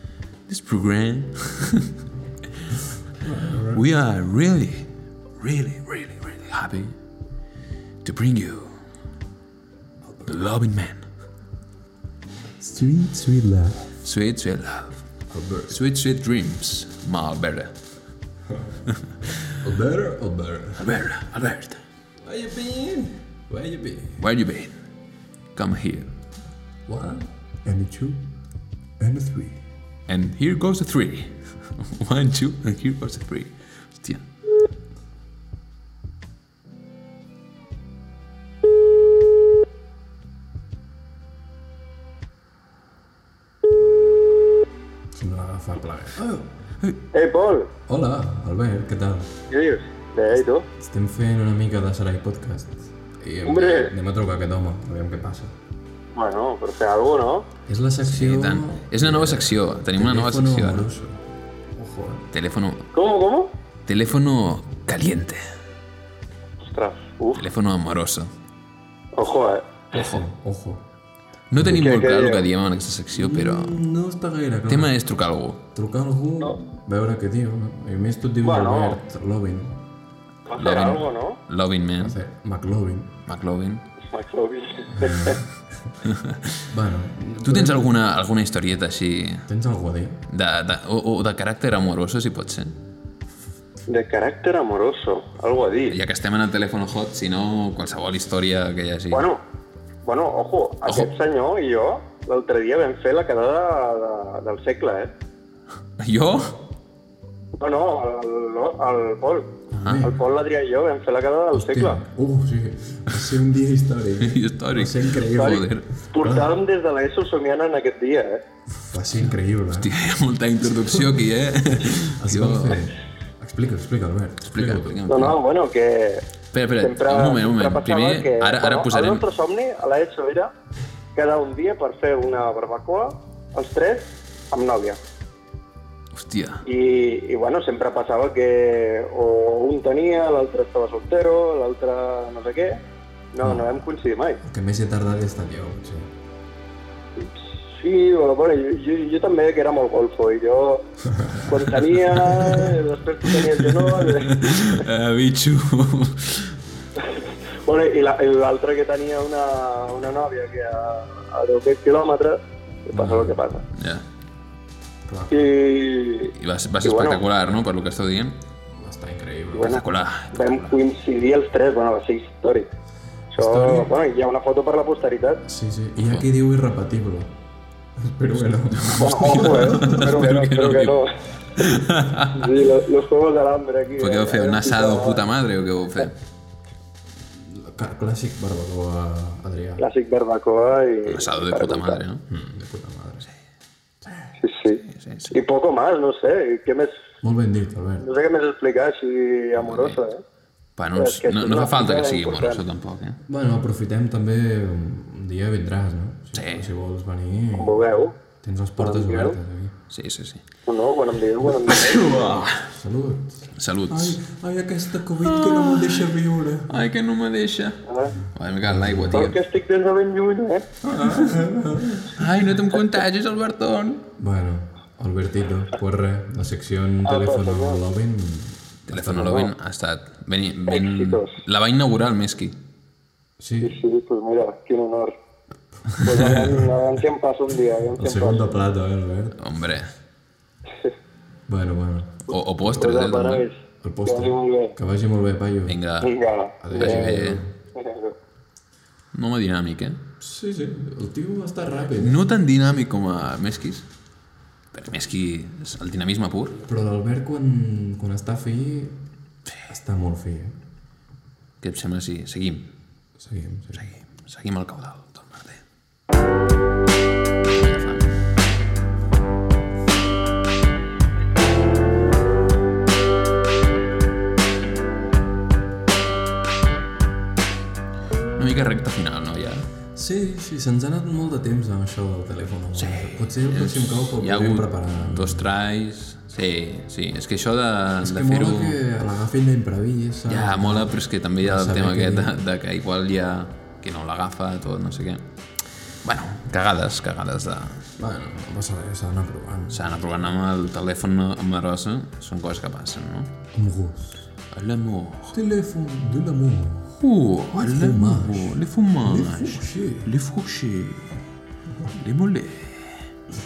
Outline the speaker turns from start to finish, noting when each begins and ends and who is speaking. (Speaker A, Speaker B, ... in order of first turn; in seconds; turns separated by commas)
Speaker A: 0.5-1.9, Speaker B: 3.2-3.9, Speaker A: 3.7-7.0, Speaker A: 8.0-8.8, Speaker B: 10.0-10.5, Speaker A: 10.3-11.1, Speaker B: 12.6-13.9, Speaker A: 14.0-15.1, Speaker B: 15.3-15.8, Speaker A: 15.7-17.8, Speaker B: 19.6-20.9, Speaker A: 20.8-21.8, Speaker B: 22.2-24.2, Speaker A: 24.2-24.8, Speaker A: 25.5-26.1, Speaker B: 26.9-28.2, Speaker B: 29.0-29.6, Speaker A: 30.1-34.3, Speaker B: 45.1-46.4, Speaker A: 46.2-47.0, Speaker C: 47.1-47.7, Speaker B: 47.9-49.3, Speaker C: 49.5-50.7, Speaker B: 50.8-55.5, Speaker C: 53.5-53.9, Speaker C: 56.1-57.5, Speaker B: 57.7-62.3, Speaker A: 58.0-60.9, Speaker A: 62.3-62.9, Speaker C: 62.9-63.5, Speaker A: 63.9-65.4, Speaker C: 66.6-67.5, Speaker A: 67.3-68.3, Speaker C: 69.1-69.9, Speaker A: 69.9-70.2, Speaker B: 69.9-70.8, Speaker A: 71.5-73.8, Speaker C: 71.6-72.5, Speaker B: 73.1-75.0, Speaker A: 74.7-75.6, Speaker B: 75.7-79.8, Speaker C: 78.4-79.0, Speaker C: 80.5-81.4, Speaker A: 80.5-82.2, Speaker B: 82.0-83.2, Speaker A: 83.3-83.8, Speaker C: 84.1-85.4, Speaker B: 85.0-85.4, Speaker A: 86.0-86.7, Speaker B: 86.7-88.0, Speaker A: 87.4-89.5, Speaker B: 89.5-90.2, Speaker A: 90.3-92.8, Speaker C: 93.9-96.0, Speaker A: 95.9-99.3, Speaker C: 99.1-99.4, Speaker C: 100.0-105.1, Speaker A: 100.8-101.1, Speaker A: 106.0-106.6, Speaker C: 107.6-112.0, Speaker A: 109.8-110.0, Speaker B: 109.8-110.2, Speaker B: 111.5-115.6, Speaker A: 114.2-115.9, Speaker C: 115.2-118.4, Speaker B: 116.2-116.6, Speaker B: 118.7-119.9, Speaker A: 119.7-122.9, Speaker B: 120.7-121.2, Speaker B: 122.2-125.0, Speaker A: 124.4-125.4, Speaker C: 125.1-130.5, Speaker A: 126.5-129.2, Speaker C: 131.1-135.0, Speaker A: 136.1-136.6, Speaker C: 136.7-144.4, Speaker B: 143.4-143.7, Speaker B: 144.4-146.1, Speaker C: 147.2-154.8, Speaker B: 151.2-151.4, Speaker A: 153.4-156.6, Speaker C: 157.0-163.7, Speaker B: 162.9-163.4, Speaker A: 163.7-164.1, Speaker B: 165.1-165.5, Speaker C: 165.3-167.2, Speaker A: 166.3-168.4, Speaker B: 168.7-169.8, Speaker C: 169.5-172.7, Speaker A: 169.6-170.8, Speaker C: 173.3-175.4, Speaker B: 173.4-173.9, Speaker B: 175.5-177.4, Speaker A: 176.0-176.2, Speaker B: 178.0-180.0, Speaker A: 178.8-181.0, Speaker C: 178.9-181.1, Speaker A: 181.6-182.7, Speaker C: 182.3-185.3, Speaker A: 184.0-186.2, Speaker B: 187.3-189.9, Speaker C: 189.8-192.0, Speaker A: 191.1-192.2, Speaker B: 192.3-193.3, Speaker B: 194.0-194.3, Speaker C: 194.4-197.0, Speaker A: 194.8-195.4, Speaker B: 197.2-198.1, Speaker C: 198.0-200.2, Speaker A: 199.6-200.0, Speaker A: 200.8-203.2, Speaker C: 200.9-202.6, Speaker B: 203.3-207.9, Speaker A: 206.3-206.7, Speaker C: 207.6-208.2, Speaker B: 208.4-209.8, Speaker C: 208.8-209.4, Speaker A: 209.9-210.4, Speaker C: 210.7-212.4, Speaker A: 211.4-212.7, Speaker B: 212.5-216.8, Speaker A: 213.5-214.2, Speaker A: 215.2-216.1, Speaker A: 216.7-219.4, Speaker C: 217.9-218.2, Speaker B: 218.6-219.2, Speaker C: 219.1-220.7, Speaker B: 220.8-222.2, Speaker A: 222.0-224.1, Speaker B: 224.2-229.5, Speaker C: 227.0-227.8, Speaker A: 228.9-232.6, Speaker C: 230.7-231.4, Speaker B: 233.4-233.8, Speaker C: 233.6-235.2, Speaker B: 235.9-236.6, Speaker C: 236.0-238.5, Speaker B: 238.0-239.4, Speaker A: 239.4-239.9, Speaker B: 241.5-242.3, Speaker A: 242.3-243.5, Speaker C: 242.7-244.8, Speaker B: 243.8-245.8, Speaker A: 245.7-246.2, Speaker C: 246.0-247.2, Speaker B: 246.6-247.5, Speaker A: 246.7-247.4, Speaker C: 247.8-248.2, Speaker A: 249.1-250.0, Speaker B: 250.2-252.2, Speaker A: 252.0-253.9, Speaker A: 254.7-256.6, Speaker B: 256.6-259.0, Speaker B: 259.7-260.6, Speaker A: 261.6-262.7, Speaker B: 263.2-263.9, Speaker A: 263.7-265.6, Speaker A: 267.5-268.2, Speaker A: 278.4-279.7, Speaker B: 279.9-285.5, Speaker A: 282.8-288.8, Speaker B: 288.0-292.4, Speaker A: 290.3-295.2, Speaker A: 295.9-297.9, Speaker B: 298.0-300.1, Speaker A: 299.7-303.4, Speaker B: 303.5-304.3, Speaker A: 304.5-305.4, Speaker B: 305.3-307.0, Speaker A: 307.0-311.2, Speaker B: 307.5-310.1, Speaker A: 311.9-313.1